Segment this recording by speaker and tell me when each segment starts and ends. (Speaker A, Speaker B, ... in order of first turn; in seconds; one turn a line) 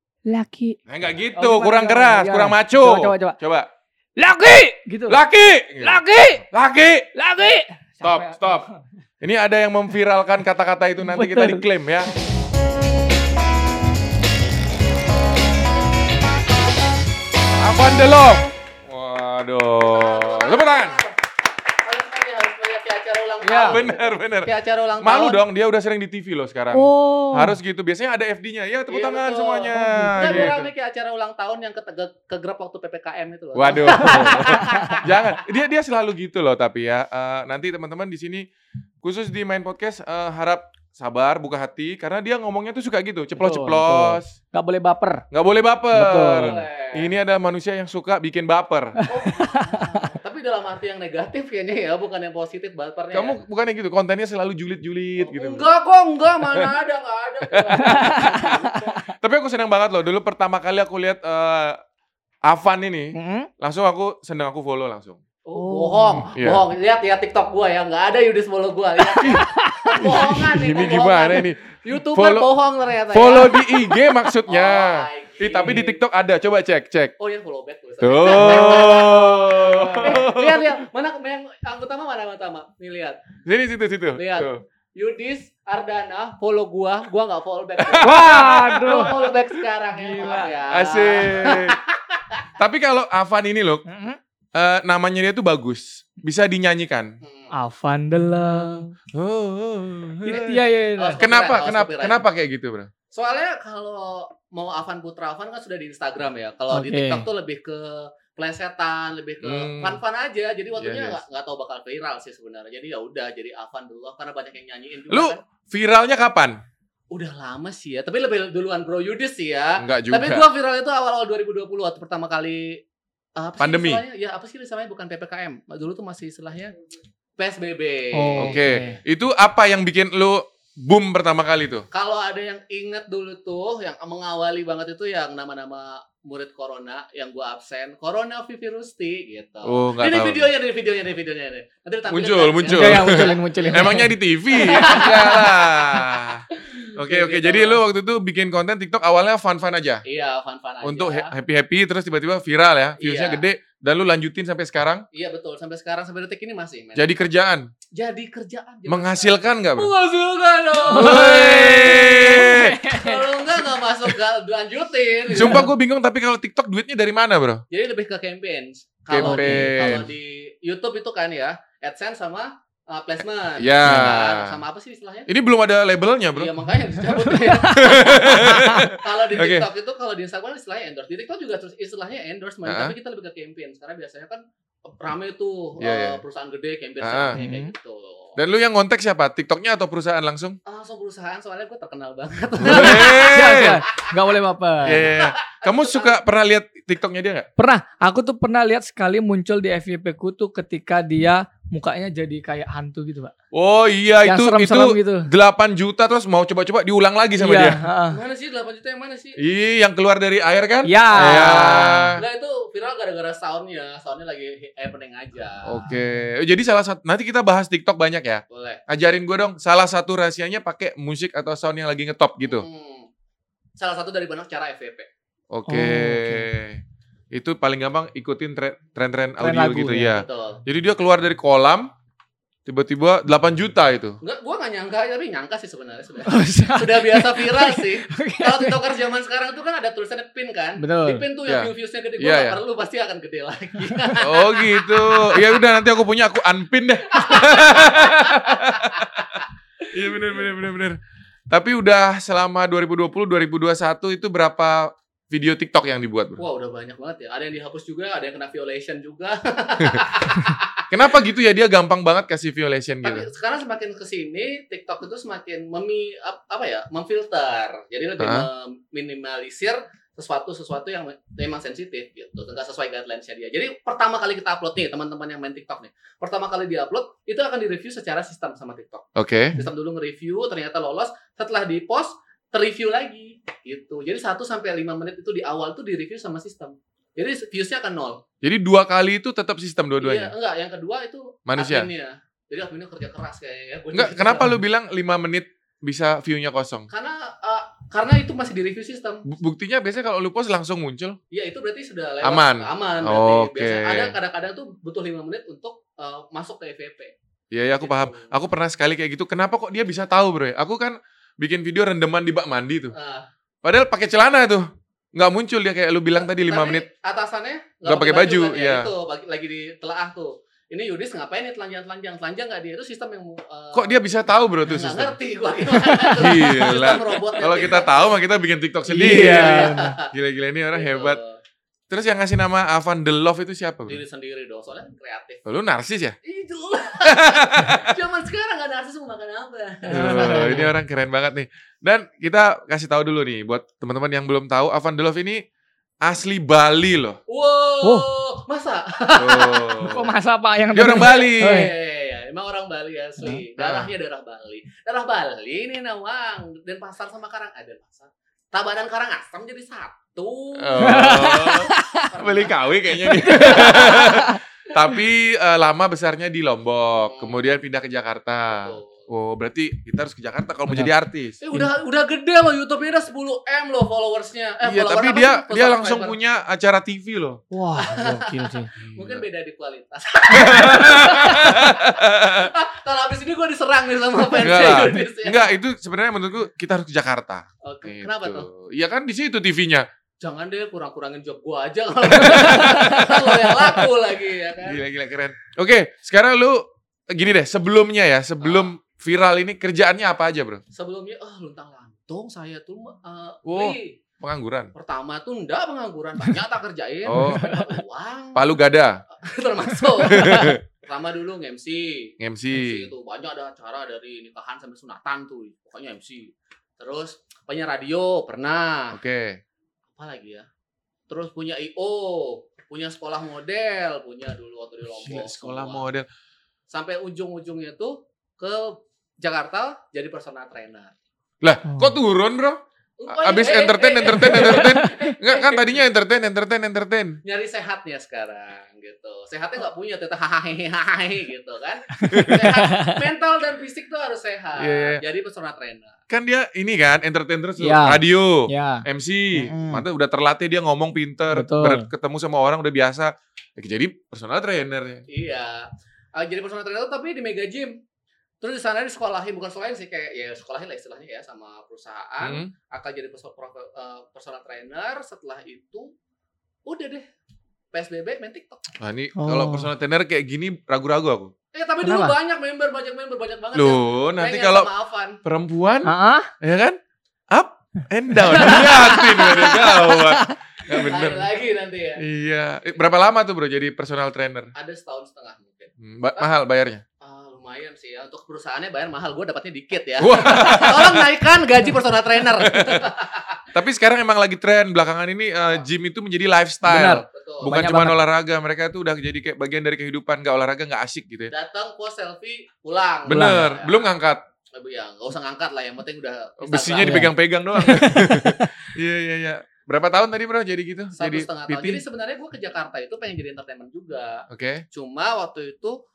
Speaker A: 0.2-0.8
Speaker B: 0.9-3.7
Speaker A: 1.3-3.4
Speaker A: 4.2-5.2
Speaker B: 5.1-7.1
Speaker A: 5.8-6.4
Speaker A: 7.1-8.8
Speaker B: 8.0-8.7
Speaker B: 9.2-12.1
Speaker A: 11.0-11.7
Speaker B: 17.6-21.0
Speaker C: 19.8-21.2
Speaker C: 21.8-25.4
Speaker A: 23.4-23.8
Speaker B: 23.6-30.7
Speaker A: 26.7-27.6
Speaker C: 28.9-35.1
Speaker A: 29.8-30.5
Speaker B: 33.5-38.5
Speaker A: 34.0-35.0
Speaker B: 39.0-44.3
Speaker A: 43.4-45.2
Speaker B: 45.3-49.0
Speaker A: 45.9-46.6
Speaker C: 46.4-47.1
Speaker A: 49.0-50.1
Speaker C: 49.1-53.4
Speaker B: 53.1-55.6
Speaker C: 55.2-58.9
Speaker B: 57.5-61.8
Speaker A: 57.7-58.9
Speaker B: 62.4-65.2
Speaker A: 63.1-63.5
Speaker C: 65.5-73.8
Speaker A: 65.5-66.3
Speaker B: 66.3-66.6
Speaker A: 69.2-70.3
Speaker B: 69.2-72.5
Speaker B: 73.1-77.1
Speaker C: 74.5-76.0
Speaker C: 77.2-83.2
Speaker B: 78.0-80.8
Speaker A: 78.5-78.9
Speaker B: 83.4-84.6
Speaker C: 84.1-92.5
Speaker B: 87.8-89.3
Speaker A: 88.0-89.3
Speaker A: 89.9-90.5
Speaker B: 90.7-91.8
Speaker B: 92.6-93.8
Speaker A: 93.9-94.2
Speaker B: 94.5-97.1
Speaker C: 97.2-97.5
Speaker A: 97.5-98.9
Speaker B: 99.1-100.6
Speaker A: 100.2-101.2
Speaker C: 101.0-102.2
Speaker B: 101.2-102.9
Speaker C: 103.1-115.4
Speaker A: 106.7-107.2
Speaker B: 109.4-110.0
Speaker B: 110.8-111.2
Speaker B: 115.1-116.6
Speaker C: 117.1-122.8
Speaker B: 119.8-120.5
Speaker C: 123.3-126.7
Speaker B: 123.6-124.0
Speaker C: 127.4-128.6
Speaker A: 128.1-129.0
Speaker B: 128.4-131.8
Speaker C: 131.9-144.1
Speaker B: 139.6-140.5
Speaker B: 142.1-150.0
Speaker A: 142.7-145.2
Speaker C: 144.6-145.5
Speaker C: 146.9-147.8
Speaker C: 150.0-151.3
Speaker B: 150.8-155.0
Speaker C: 153.0-153.4
Speaker C: 155.1-157.1
Speaker B: 156.9-157.7
Speaker C: 157.9-161.6
Speaker B: 158.9-159.9
Speaker A: 160.7-163.3
Speaker B: 160.9-162.8
Speaker C: 162.8-165.7
Speaker B: 165.3-167.6
Speaker C: 167.7-175.3
Speaker B: 169.1-170.1
Speaker A: 169.1-169.8
Speaker B: 173.6-174.6
Speaker B: 175.3-176.6
Speaker C: 176.3-188.3
Speaker A: 177.0-178.9
Speaker B: 177.6-179.7
Speaker B: 182.6-182.9
Speaker B: 185.8-186.2
Speaker B: 187.0-187.4
Speaker A: 187.3-187.7
Speaker B: 188.3-190.6
Speaker C: 190.7-193.4
Speaker B: 192.6-193.8
Speaker A: 192.7-195.1
Speaker B: 194.8-197.5
Speaker C: 194.8-196.2
Speaker A: 197.6-203.3
Speaker B: 203.5-207.8
Speaker A: 204.2-205.3
Speaker A: 207.4-208.2
Speaker C: 208.1-209.4
Speaker B: 209.4-212.2
Speaker A: 210.8-212.1
Speaker C: 211.1-215.9
Speaker B: 215.6-222.7
Speaker C: 218.5-218.8
Speaker C: 222.4-223.1
Speaker C: 223.8-225.1
Speaker B: 225.5-226.8
Speaker A: 225.7-226.5
Speaker B: 227.3-231.9
Speaker A: 229.4-230.2
Speaker C: 230.1-230.6
Speaker B: 232.7-234.2
Speaker C: 234.2-245.6
Speaker A: 236.2-238.8
Speaker A: 240.8-241.2
Speaker B: 241.4-242.6
Speaker B: 244.2-249.4
Speaker C: 247.1-249.5
Speaker B: 249.9-251.0
Speaker B: 251.5-256.4
Speaker C: 256.4-260.8
Speaker B: 260.9-263.3
Speaker C: 263.0-288.2
Speaker B: 268.2-268.5
Speaker B: 279.1-279.6
Speaker B: 288.4-290.3
Speaker C: 290.0-294.6
Speaker B: 291.4-291.9
Speaker B: 293.9-296.9
Speaker C: 296.9-299.2
Speaker B: 299.2-301.2
Speaker C: 301.3-307.1
Speaker B: 302.2-304.1
Speaker B: 307.5-312.9
Speaker C: 307.8-308.3
Speaker C: 312.9-313.3
Speaker B: 313.6-316.9
Speaker C: 316.2-324.0
Speaker B: 317.8-318.9
Speaker B: 323.7-325.1
Speaker C: 324.6-328.1
Speaker A: 325.8-326.4
Speaker B: 326.1-331.2
Speaker A: 328.9-330.0
Speaker C: 328.9-330.1
Speaker C: 330.7-331.4
Speaker B: 331.9-334.0
Speaker C: 333.9-335.4
Speaker B: 335.4-336.2
Speaker C: 336.2-340.7
Speaker B: 337.0-337.9
Speaker A: 339.9-340.7
Speaker B: 339.9-345.4
Speaker B: 346.0-347.2
Speaker C: 347.3-350.0
Speaker A: 347.8-348.1
Speaker B: 349.2-350.1
Speaker A: 349.8-351.7
Speaker B: 350.7-351.7
Speaker C: 350.9-362.6
Speaker B: 353.6-353.9
Speaker B: 360.5-371.4
Speaker A: 360.8-362.1
Speaker A: 363.1-364.4
Speaker C: 363.2-364.2
Speaker C: 367.0-367.5
Speaker C: 368.5-369.1
Speaker C: 371.4-376.2
Speaker B: 374.6-377.4
Speaker A: 377.5-378.7
Speaker C: 377.7-385.5
Speaker B: 378.7-379.2
Speaker B: 380.3-382.5
Speaker B: 384.4-389.9
Speaker C: 387.6-388.5
Speaker C: 390.2-394.8
Speaker B: 392.2-393.3
Speaker B: 394.6-400.6
Speaker C: 398.4-398.7
Speaker C: 400.7-404.0
Speaker B: 403.4-404.7
Speaker C: 404.7-408.4
Speaker B: 407.0-407.6
Speaker A: 407.1-407.7
Speaker B: 408.3-409.0
Speaker C: 409.1-419.0
Speaker B: 410.0-410.6
Speaker B: 412.2-412.9
Speaker B: 418.9-419.4
Speaker C: 419.9-420.5
Speaker C: 421.1-425.8
Speaker B: 424.9-426.1
Speaker C: 426.7-430.9
Speaker B: 431.4-437.2
Speaker A: 431.7-431.9
Speaker C: 433.0-435.8
Speaker A: 434.3-435.0
Speaker C: 437.2-445.9
Speaker A: 442.0-443.0
Speaker B: 442.1-442.4
Speaker B: 444.6-445.0
Speaker B: 446.1-455.1
Speaker A: 447.6-448.8
Speaker A: 449.4-449.8
Speaker A: 451.3-451.9
Speaker C: 455.1-457.8
Speaker C: 458.4-465.9
Speaker B: 462.2-462.5
Speaker C: 466.6-467.1
Speaker C: 467.7-468.7
Speaker B: 468.8-471.3
Speaker A: 469.1-469.7
Speaker C: 471.5-475.2
Speaker A: 471.8-472.1
Speaker B: 473.5-474.7
Speaker B: 475.2-476.8
Speaker A: 475.8-476.3
Speaker B: 477.3-481.3
Speaker C: 478.3-479.1
Speaker A: 478.3-480.3
Speaker C: 480.8-482.0
Speaker B: 482.0-484.5
Speaker C: 484.5-486.3
Speaker B: 485.8-486.8
Speaker C: 487.0-493.4
Speaker B: 490.0-491.1
Speaker B: 492.4-492.8
Speaker B: 493.5-501.3
Speaker C: 495.4-495.7
Speaker A: 496.6-498.0
Speaker C: 496.9-497.5
Speaker C: 501.3-503.9
Speaker B: 503.1-504.2
Speaker A: 503.1-503.5
Speaker C: 504.5-507.1
Speaker B: 506.4-511.8
Speaker A: 506.8-508.5
Speaker C: 510.9-515.8
Speaker B: 514.3-514.6